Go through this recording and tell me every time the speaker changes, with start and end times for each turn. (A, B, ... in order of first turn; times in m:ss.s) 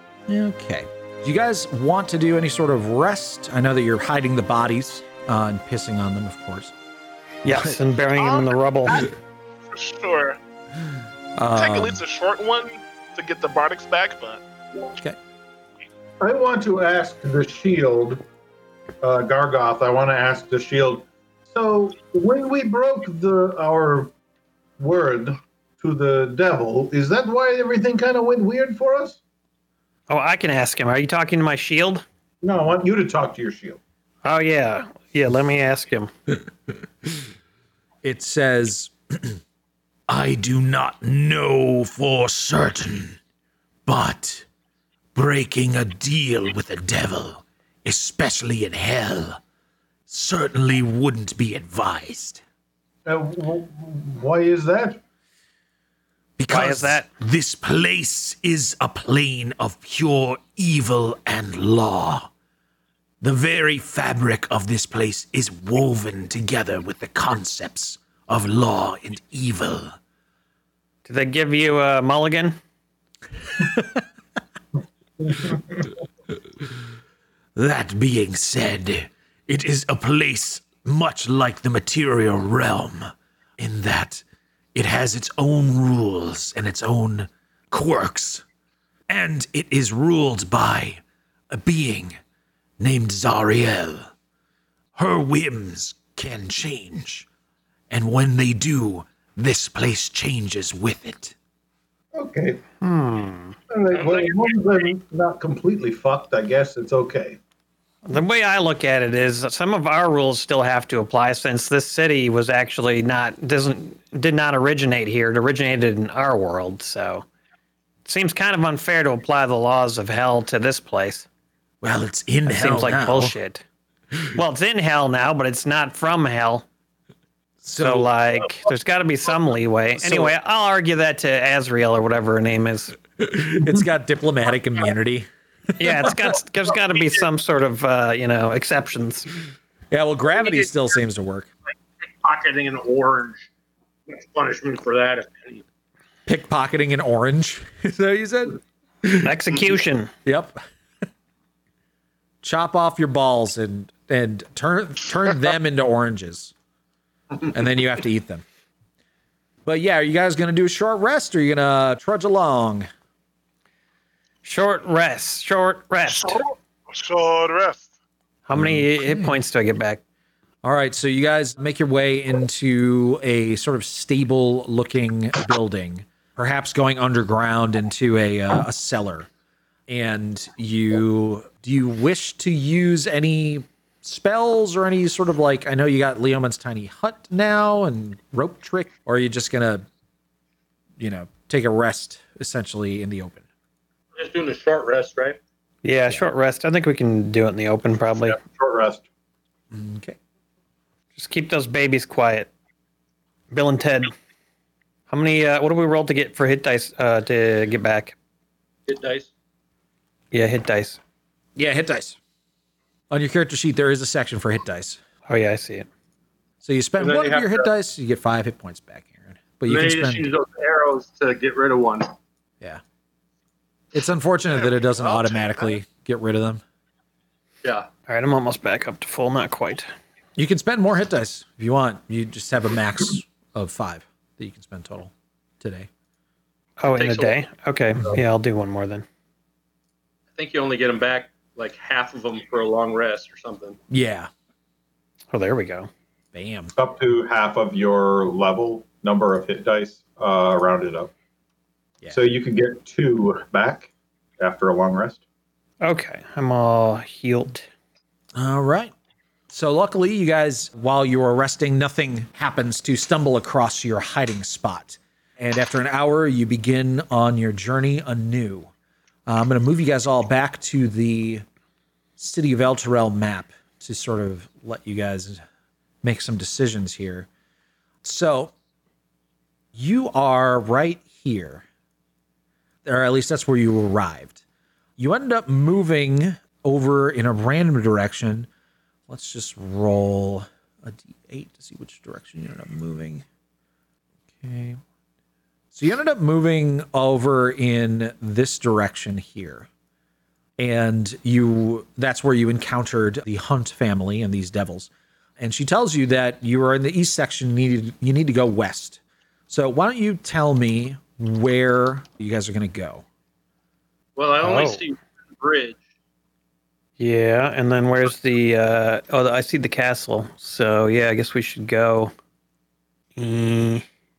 0:00.3-0:06.7 A
0:07.4-0:09.1 B
0:07.5-0:07.8 A
0:08.2-0:09.1 C
0:09.7-0:10.4 C
0:11.4-0:12.0 A
0:11.5-0:14.4 C
0:16.2-0:18.2 D
0:19.0-0:24.1 D
0:24.8-0:29.2 D
0:30.1-0:32.0 B
0:32.4-0:33.8 D
0:34.2-0:36.1 B
0:38.0-0:39.4 A
0:40.1-0:43.2 A
0:43.9-0:44.5 A
0:45.2-0:49.4 A
0:50.1-0:52.4 A
0:53.0-0:55.0 D
0:56.4-1:02.3 A
0:56.5-0:57.1 B
1:03.2-1:10.0 A
1:11.0-1:12.6 B
1:13.6-1:14.0 A
1:17.6-1:28.4 A
1:29.1-1:32.2 A
1:32.8-1:34.1 A
1:35.0-1:37.3 A
1:37.9-1:41.4 A
1:42.2-1:42.6 D
1:42.8-1:43.6 B
1:43.7-1:47.4 D
1:43.9-1:44.6 E
1:48.1-1:57.3 B
1:58.1-2:01.3 B
2:01.8-2:03.4 A
2:02.5-2:03.6 B
2:04.3-2:06.7 B
2:07.6-2:08.1 A
2:07.8-2:13.0 B
2:10.0-2:10.3 A
2:13.2-2:15.3 A
2:15.8-2:19.3 B
2:15.8-2:16.4 A
2:19.9-2:21.5 A
2:20.3-2:20.7 E
2:22.0-2:23.5 E
2:24.1-2:25.6 E
2:26.3-2:29.4 A
2:29.2-2:30.1 B
2:30.2-2:30.6 A
2:32.4-2:36.5 A
2:37.4-2:38.4 A
2:39.6-2:42.9 A
2:44.4-2:46.4 B
2:46.1-2:47.9 C
2:48.5-2:50.0 B
2:48.5-2:49.4 A
2:50.6-2:59.3 A
2:59.9-3:09.8 A
3:11.0-3:13.4 A
3:14.2-3:15.4 E
3:15.8-3:18.4 B
3:18.4-3:19.1 D
3:19.7-3:20.2 A
3:21.2-3:22.5 B
3:23.5-3:24.1 B
3:25.1-3:28.2 B
3:28.9-3:29.3 E
3:30.3-3:31.0 B
3:31.6-3:32.2 A
3:33.1-3:35.0 A
3:35.3-3:35.9 B
3:36.6-3:40.3 A
3:37.0-3:37.7 E
3:39.7-3:42.1 E
3:43.9-3:46.6 A
3:48.1-3:49.9 B
3:50.4-3:55.9 A
3:56.8-3:59.0 B
3:57.0-3:57.4 E
4:00.4-4:03.8 E
4:03.9-4:04.3 A
4:05.3-4:05.9 B
4:06.3-4:06.7 A
4:06.8-4:11.1 D
4:12.1-4:15.2 D
4:15.8-4:17.7 B
4:18.4-4:18.9 A
4:19.5-4:28.7 A
4:29.3-4:31.4 A
4:32.2-4:35.4 A
4:36.0-4:37.3 A
4:38.0-4:38.5 A
4:39.8-4:41.6 A
4:42.8-4:44.4 A
4:45.0-4:48.5 A
4:49.1-4:53.2 A
4:54.4-4:54.8 A
4:55.7-4:59.7 A
5:00.6-5:13.0 A
5:14.2-5:15.8 E
5:14.4-5:14.8 B
5:17.0-5:22.1 B
5:23.2-5:23.9 B